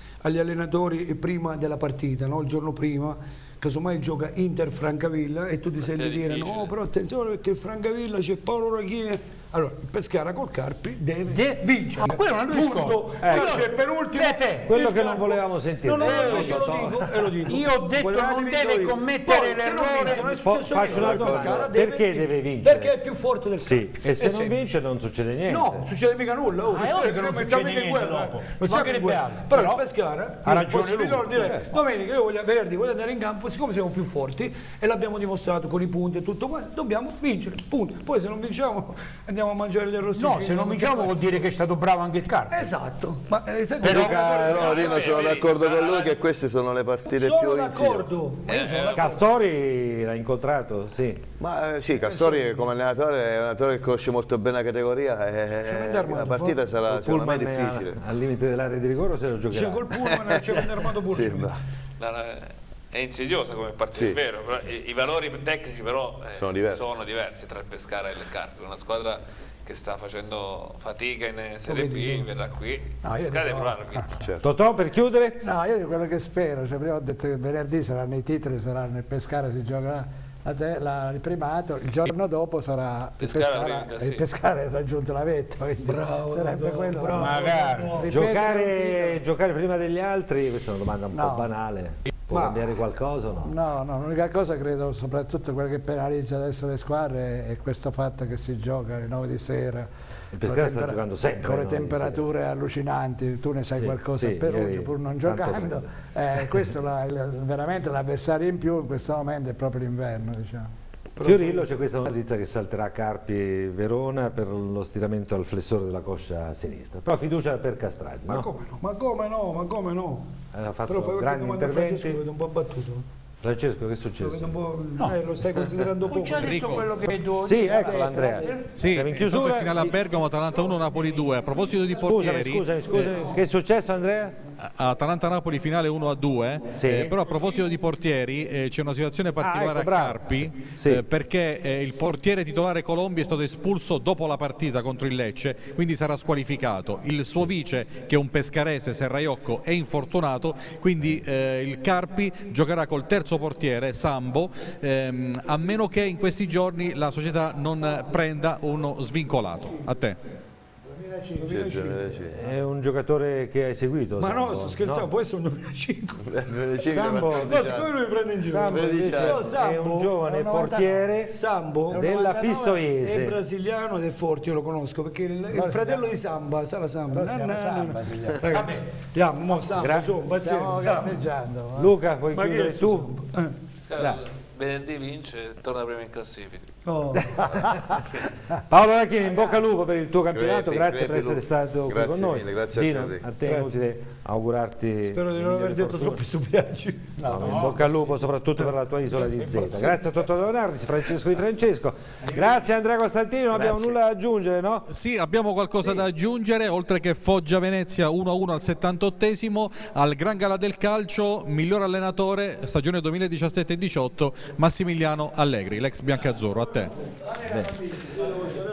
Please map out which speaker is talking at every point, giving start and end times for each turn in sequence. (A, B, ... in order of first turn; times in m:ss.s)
0:00.2-0:24.7 A
0:05.8-0:06.7 B
0:11.3-0:15.1 C
0:13.2-0:13.7 D
0:14.7-0:17.3 D
0:15.8-0:16.7 C
0:17.5-0:20.4 C
0:20.4-0:23.0 D
0:23.6-0:25.9 D
0:25.5-0:41.4 A
0:26.7-0:29.8 C
0:30.4-0:31.3 C
0:31.3-0:31.7 D
0:40.2-0:42.6 C
0:42.5-0:45.1 A
0:43.8-0:44.7 C
0:43.9-0:48.1 E
0:44.4-0:46.2 B
0:47.1-0:49.2 A
0:48.5-0:49.1 B
0:48.9-0:51.2 D
0:51.4-0:58.0 E
0:52.0-0:52.7 A
0:55.6-0:56.6 A
0:56.9-0:59.9 D
0:59.5-1:01.6 A
1:00.2-1:01.5 E
1:02.0-1:14.2 B
1:06.4-1:06.8 E
1:11.7-1:12.3 A
1:13.0-1:14.3 F
1:14.4-1:15.4 D
1:15.4-1:29.2 F
1:23.2-1:24.2 B
1:25.8-1:28.2 A
1:27.1-1:28.0 C
1:28.1-1:33.6 D
1:31.1-1:31.5 F
1:32.3-1:32.6 A
1:33.4-1:50.7 F
1:40.3-1:42.2 D
1:43.8-1:45.9 D
1:51.2-1:51.7 A
1:51.2-1:58.5 D
1:58.3-2:00.3 A
2:00.5-2:02.2 D
2:00.9-2:03.0 A
2:03.4-2:04.6 D
2:04.2-2:06.7 A
2:06.1-2:08.6 C
2:06.4-2:07.0 G
2:07.4-2:10.0 D
2:07.7-2:08.5 F
2:08.8-2:12.8 G
2:11.9-2:14.4 D
2:14.8-2:40.2 G
2:16.7-2:17.2 D
2:19.4-2:21.0 D
2:40.9-2:41.6 F
2:41.4-2:42.3 A
2:41.5-2:42.4 E
2:42.3-2:45.1 D
2:44.2-2:46.3 A
2:46.3-2:47.9 E
2:46.9-2:47.8 D
2:47.3-2:50.1 A
2:48.5-2:51.3 D
2:48.6-2:49.5 E
2:50.2-2:51.1 F
2:51.3-2:52.0 A
2:51.9-2:52.9 F
2:51.9-2:53.4 D
2:53.0-3:01.3 A
2:55.5-2:56.1 F
2:57.1-2:58.8 F
2:59.5-3:02.0 F
2:59.7-3:00.2 D
3:01.8-3:03.2 D
3:02.3-3:03.6 A
3:03.8-3:06.7 B
3:06.8-3:07.4 A
3:07.1-3:08.0 F
3:08.7-3:16.2 D
3:10.3-3:13.3 E
3:13.4-3:13.8 A
3:15.1-3:18.1 A
3:17.2-3:17.9 F
3:17.2-3:24.9 D
3:19.2-3:20.1 A
3:24.9-3:36.9 G
3:37.5-3:37.8 D
3:37.8-3:38.6 F